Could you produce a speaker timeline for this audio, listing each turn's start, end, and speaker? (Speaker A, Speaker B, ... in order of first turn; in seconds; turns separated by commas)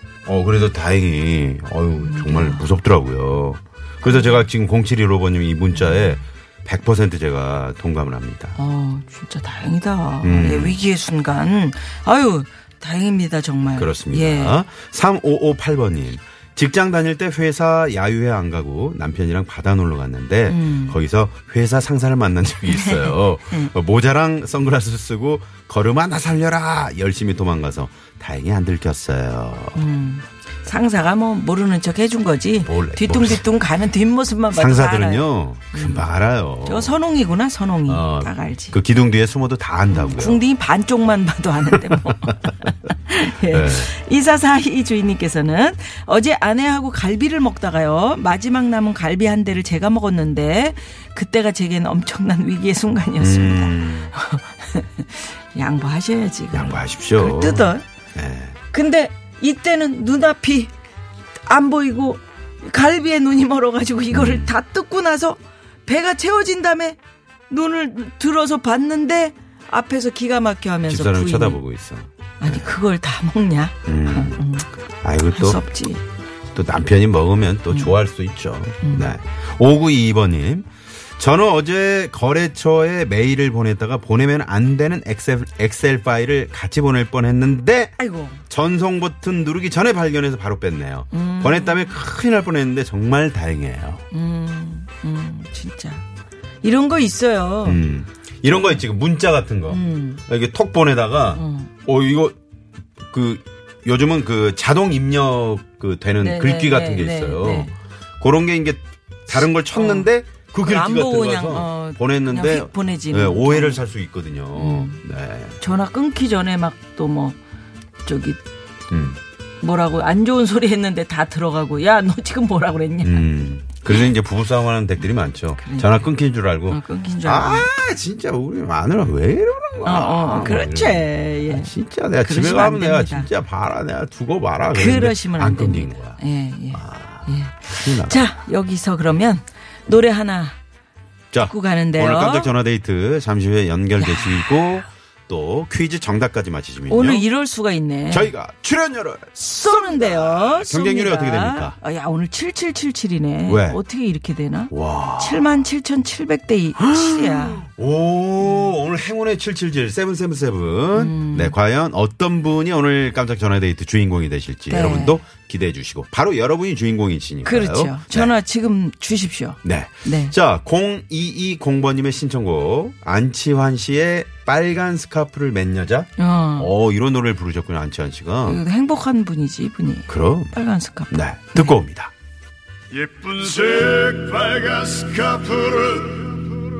Speaker A: 0.3-8.6, Speaker B: 2.0-2.7, Speaker B: 4.1-4.5, Speaker B: 5.7-6.2, Speaker B: 8.6-14.6, Speaker A: 10.2-10.8, Speaker A: 13.8-29.8, Speaker B: 20.5-21.0, Speaker B: 22.7-23.7, Speaker B: 29.8-36.1, Speaker A: 32.7-33.5, Speaker A: 34.5-37.0, Speaker B: 36.6-38.8, Speaker A: 37.9-40.4, Speaker B: 39.9-57.9, Speaker A: 41.8-42.4, Speaker A: 43.5-43.9, Speaker A: 53.2-54.1, Speaker A: 56.5-58.6, Speaker B: 58.7-60.7, Speaker B: 61.5-67.0, Speaker A: 64.1-64.5, Speaker B: 67.5-71.6, Speaker A: 70.9-72.7, Speaker B: 72.4-74.7, Speaker A: 73.9-74.5, Speaker A: 75.0-75.6, Speaker B: 75.3-76.0, Speaker A: 76.5-88.0, Speaker B: 77.7-78.0, Speaker B: 78.8-79.1, Speaker B: 88.0-88.4, Speaker A: 88.5-94.0, Speaker B: 91.1-92.0, Speaker B: 94.1-96.0, Speaker B: 96.6-97.8, Speaker A: 97.7-102.4, Speaker B: 99.7-100.2, Speaker B: 101.3-101.7, Speaker A: 103.1-115.6, Speaker B: 106.2-107.7, Speaker B: 109.7-110.1, Speaker B: 110.6-113.8, Speaker B: 114.5-115.0, Speaker B: 115.6-117.4, Speaker B: 118.0-118.4, Speaker A: 118.9-119.2, Speaker B: 119.6-123.2, Speaker A: 123.0-136.2, Speaker B: 125.6-126.1, Speaker B: 126.7-127.7, Speaker B: 129.8-131.7, Speaker B: 132.2-133.3, Speaker B: 134.7-140.6, Speaker A: 136.7-138.2, Speaker A: 141.3-147.3, Speaker B: 141.5-142.5, Speaker B: 144.0-144.9, Speaker B: 146.9-148.3, Speaker A: 148.1-151.8, Speaker B: 149.4-157.7, Speaker A: 153.5-153.8, Speaker A: 154.7-155.5, Speaker A: 156.8-168.3, Speaker B: 158.4-158.7, Speaker B: 160.9-161.6, Speaker B: 164.7-165.2, Speaker B: 167.4-170.3, Speaker A: 169.6-178.6, Speaker B: 176.2-176.7, Speaker B: 178.4-181.7, Speaker A: 180.1-180.6, Speaker A: 181.1-182.1, Speaker C: 182.9-186.6